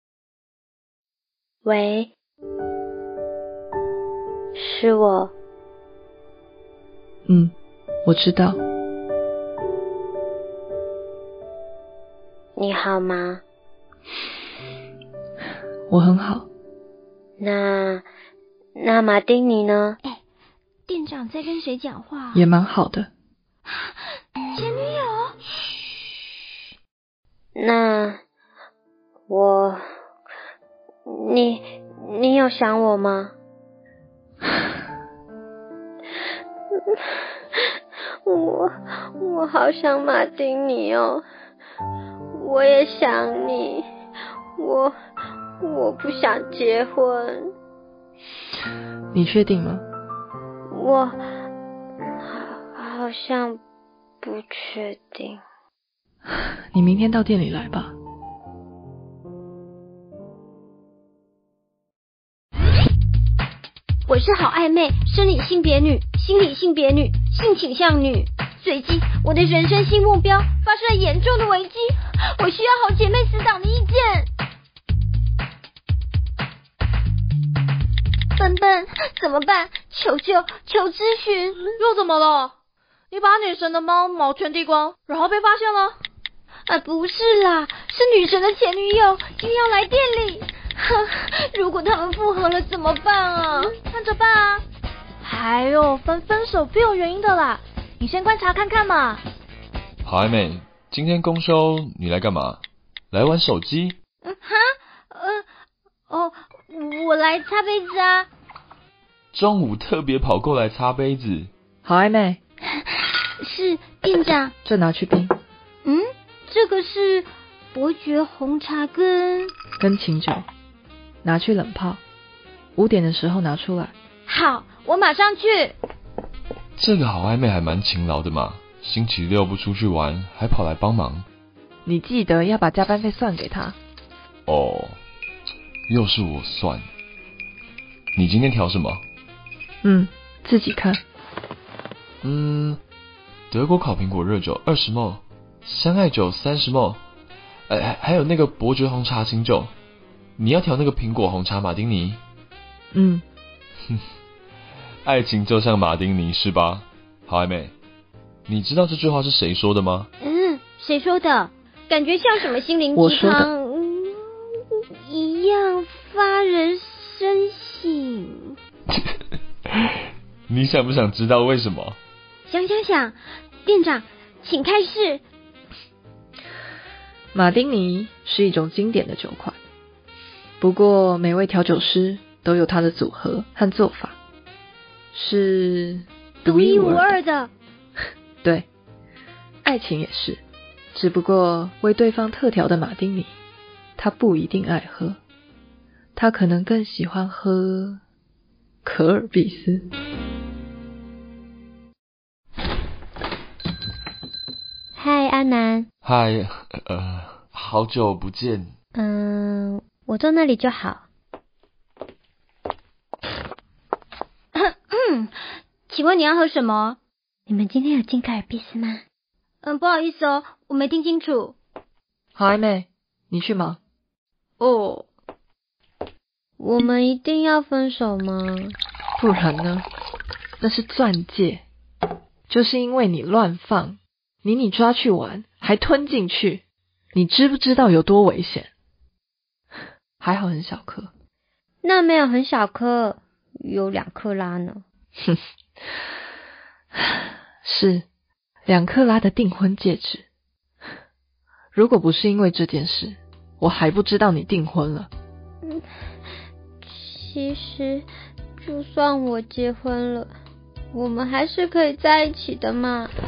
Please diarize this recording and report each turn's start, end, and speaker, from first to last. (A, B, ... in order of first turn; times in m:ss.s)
0:01.6-0:02.1 A
0:04.6-0:05.3 A
0:07.2-0:07.5 B
0:08.0-0:08.6 B
0:12.6-0:13.4 A
0:15.9-0:16.5 B
0:17.4-0:18.0 A
0:18.8-0:20.0 A
0:20.9-0:22.5 C
0:22.3-0:23.1 B
0:24.5-0:25.4 C
0:27.6-0:28.2 A
0:29.3-0:29.8 A
0:31.1-0:33.3 A
0:38.2-0:41.2 A
0:42.3-0:43.8 A
0:44.6-0:44.9 A
0:45.6-0:47.4 A
0:49.1-0:49.8 B
0:50.7-0:51.2 A
0:52.2-0:53.6 A
0:54.2-0:55.4 A
0:56.7-0:57.9 B
1:04.1-1:14.3 C
1:18.4-1:21.8 C
1:21.8-1:22.5 D
1:23.1-1:26.0 D
1:26.7-1:34.6 C
1:33.9-1:34.3 D
1:35.2-1:39.2 D
1:40.0-1:44.0 E
1:44.2-1:45.4 C
1:46.1-1:48.3 C
1:49.3-1:51.5 E
1:51.8-1:52.4 B
1:53.4-1:54.5 C
1:54.6-1:55.3 B
1:55.8-1:59.5 C
1:59.8-2:00.5 B
2:01.2-2:02.0 B
2:02.8-2:03.9 B
2:04.3-2:05.8 C
2:06.8-2:11.2 E
2:11.8-2:13.8 B
2:14.5-2:15.0 E
2:15.9-2:16.8 E
2:18.2-2:19.0 E
2:19.8-2:21.0 B
2:22.2-2:22.8 E
2:23.5-2:27.0 E
2:27.7-2:29.7 E
2:30.4-2:32.2 E
2:32.9-2:33.2 B
2:35.0-2:37.7 E
2:38.5-2:40.1 E
2:40.2-2:48.6 C
2:42.9-2:43.5 B
2:50.5-2:52.0 E
2:52.5-2:55.2 C
2:57.3-2:59.6 B
3:00.6-3:04.2 B
3:05.1-3:07.2 B
3:06.4-3:07.5 C
3:08.4-3:08.7 B
3:09.6-3:10.4 B
3:10.9-3:13.3 B
3:14.0-3:15.2 B
3:16.2-3:18.0 B
3:18.8-3:19.8 B
3:24.9-3:25.9 A
3:26.0-3:28.7 E
3:29.0-3:31.0 A
3:34.5-3:35.3 C
3:35.9-3:37.0 C
3:37.5-3:39.0 A
3:39.6-3:41.6 C
3:42.3-3:43.8 B
3:44.6-3:45.0 C
3:46.6-3:48.8 A
3:49.2-3:49.8 B
3:50.6-3:51.6 B
3:52.5-3:56.6 B
3:57.1-3:58.7 B
4:00.2-4:01.1 B
4:01.8-4:04.8 A
4:07.6-4:08.0 B
4:08.6-4:10.2 B
4:11.7-4:15.1 B
4:16.8-4:18.0 A
4:18.6-4:20.3 A
4:20.9-4:23.1 A